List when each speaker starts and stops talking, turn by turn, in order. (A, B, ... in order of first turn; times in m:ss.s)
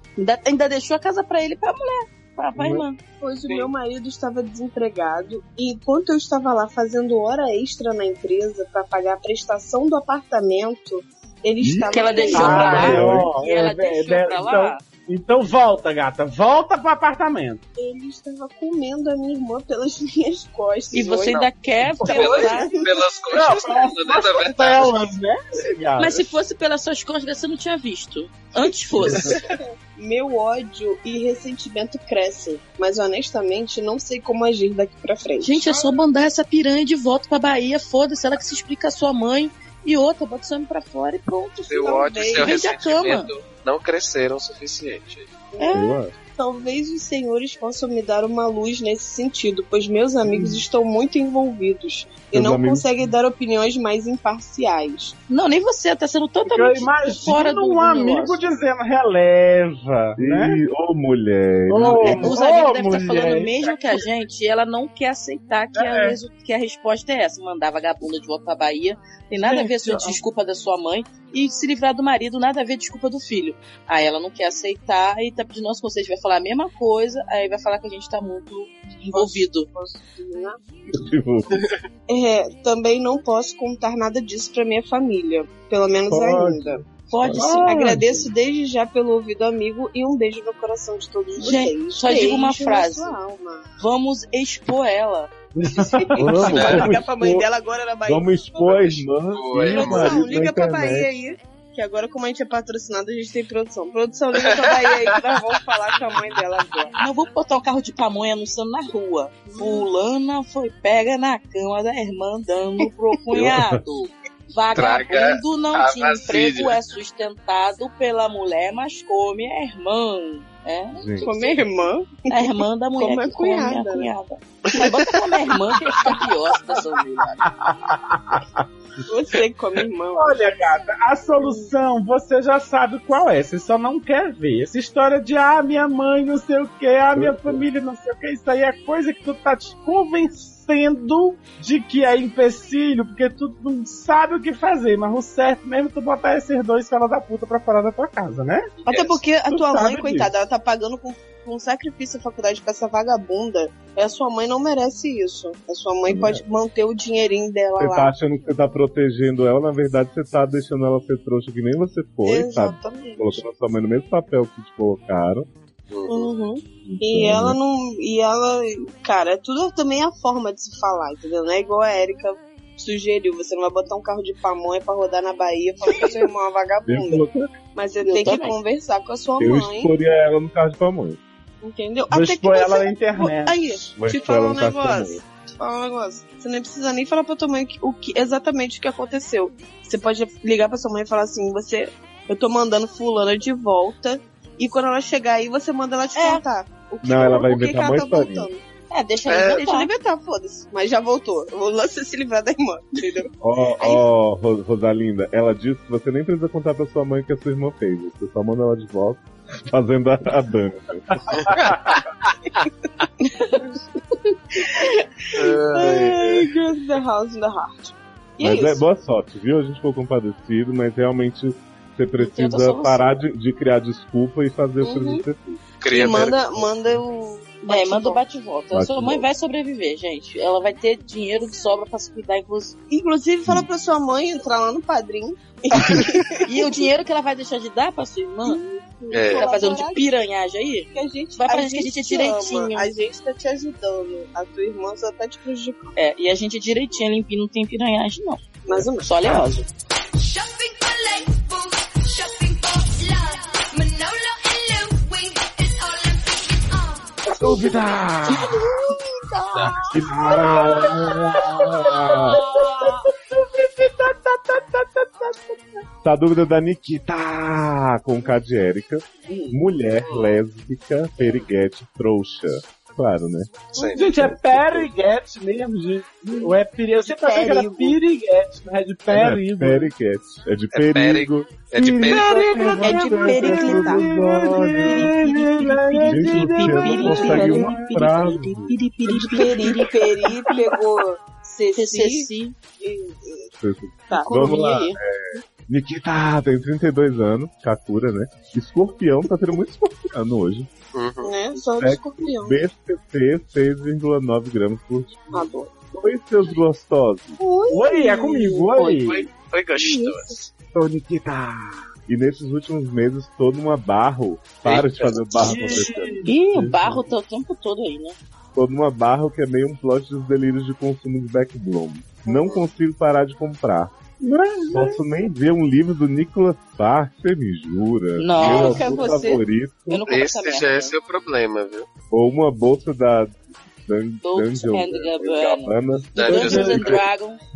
0:00.2-0:03.0 A
0:02.6-0:02.8 B
0:03.2-0:13.0 C
0:03.4-0:03.7 D
0:11.6-0:13.3 B
0:11.9-0:14.8 A
0:12.3-0:17.6 E
0:17.8-0:21.5 C
0:20.9-0:22.7 A
0:22.0-0:22.6 E
0:22.0-0:25.0 D
0:22.2-0:23.0 C
0:23.3-0:26.3 E
0:26.0-0:29.4 A
0:29.0-0:29.4 E
0:29.4-0:35.9 C
0:35.4-0:43.3 A
0:41.7-0:45.3 D
0:41.7-0:42.6 C
0:45.5-0:55.2 C
0:45.6-0:45.9 A
0:45.7-0:46.1 B
0:50.3-0:50.6 E
0:52.3-0:52.8 B
0:55.3-0:58.4 A
0:56.4-1:00.6 E
1:00.2-1:02.4 B
1:01.7-1:04.0 E
1:01.8-1:19.7 A
1:05.8-1:06.2 E
1:09.4-1:10.2 E
1:19.0-1:20.6 C
1:20.9-1:21.7 B
1:22.1-1:26.8 C
1:26.1-1:28.3 B
1:27.1-1:27.8 A
1:27.4-1:28.0 E
1:27.6-1:33.7 C
1:31.4-1:33.2 A
1:33.8-1:35.3 A
1:35.6-1:36.9 E
1:35.8-1:38.9 C
1:36.2-1:37.5 B
1:36.5-1:36.8 D
1:38.0-1:41.1 B
1:38.7-1:40.3 D
1:39.6-1:47.0 C
1:44.4-1:45.2 D
1:47.0-2:01.6 A
1:49.5-1:49.9 C
1:53.3-1:53.8 B
1:54.8-1:56.8 D
2:01.0-2:01.3 B
2:01.2-2:04.1 C
2:02.3-2:07.4 A
2:06.0-2:06.3 E
2:07.4-2:08.7 E
2:09.1-2:10.4 C
2:10.2-2:28.7 E
2:11.4-2:11.7 C
2:17.2-2:17.6 B
2:28.8-2:29.2 D
2:28.9-2:38.1 C
2:29.5-2:30.3 E
2:36.1-2:36.4 B
2:37.8-2:45.5 B
2:42.2-2:43.4 C
2:45.9-2:46.3 D
2:46.1-2:59.9 C
2:46.9-2:47.6 B
2:55.9-2:56.2 E
2:56.9-2:57.4 B
2:58.0-2:58.6 A
2:59.4-3:01.2 B
3:01.6-3:18.6 C
3:02.1-3:03.6 E
3:04.0-3:05.2 B
3:16.2-3:16.4 A
3:17.0-3:18.5 B
3:18.9-3:19.9 A
3:19.3-3:19.6 D
3:19.5-3:24.0 C
3:23.4-3:31.2 B
3:31.4-3:32.0 D
3:33.2-3:38.8 C
3:35.4-3:36.5 D
3:38.4-3:45.6 B
3:42.2-3:43.2 A
3:44.8-3:45.2 C
3:45.8-3:46.4 D
3:45.9-3:48.2 C
3:47.6-3:52.8 A
3:48.7-3:49.3 B
3:52.9-3:56.9 C
3:56.5-3:58.6 A
3:58.4-4:00.1 C
3:59.1-3:59.5 D
3:59.3-4:02.9 A
4:00.9-4:05.9 C
4:06.0-4:09.7 A
4:08.6-4:09.1 C
4:10.2-4:17.2 F
4:17.4-4:18.6 E
4:17.4-4:18.5 B
4:18.3-4:20.0 C
4:19.5-4:19.8 D
4:19.9-4:22.4 B
4:19.9-4:25.8 E
4:22.3-4:23.1 F
4:26.0-4:34.9 B
4:29.3-4:29.6 E
4:30.0-4:30.4 D
4:33.7-4:34.1 D
4:34.0-4:39.9 E
4:37.0-4:38.0 C
4:39.1-4:45.2 B
4:40.7-4:42.4 D
4:41.8-4:48.6 E
4:42.6-4:44.0 C
4:44.8-4:45.2 C
4:45.8-4:50.7 A
4:45.9-4:48.3 C
4:46.0-4:48.7 B
4:49.0-4:52.3 C
4:49.2-4:49.8 E
4:51.8-4:52.6 A
4:52.8-4:53.5 C
4:53.6-5:00.7 B
4:54.1-4:55.0 C
4:54.2-4:54.7 A
5:00.9-5:01.5 D
5:01.2-5:02.7 C
5:01.8-5:05.3 B
5:05.3-5:05.7 C
5:05.9-5:07.4 B
5:07.4-5:09.0 C
5:07.7-5:09.2 E
5:09.1-5:10.4 D
5:09.8-5:10.4 C
5:10.8-5:11.6 E
5:12.1-5:16.3 B
5:14.6-5:15.9 D
5:15.4-5:17.0 E
5:16.3-5:18.2 A
5:18.6-5:23.9 B
5:22.4-5:22.6 D
5:24.2-5:25.0 E
5:24.7-5:30.0 B
5:28.2-5:31.0 A
5:28.6-5:29.4 C
5:30.1-5:31.9 D
5:32.1-5:37.0 B
5:34.2-5:37.4 A
5:36.2-5:37.0 D
5:36.3-5:37.0 E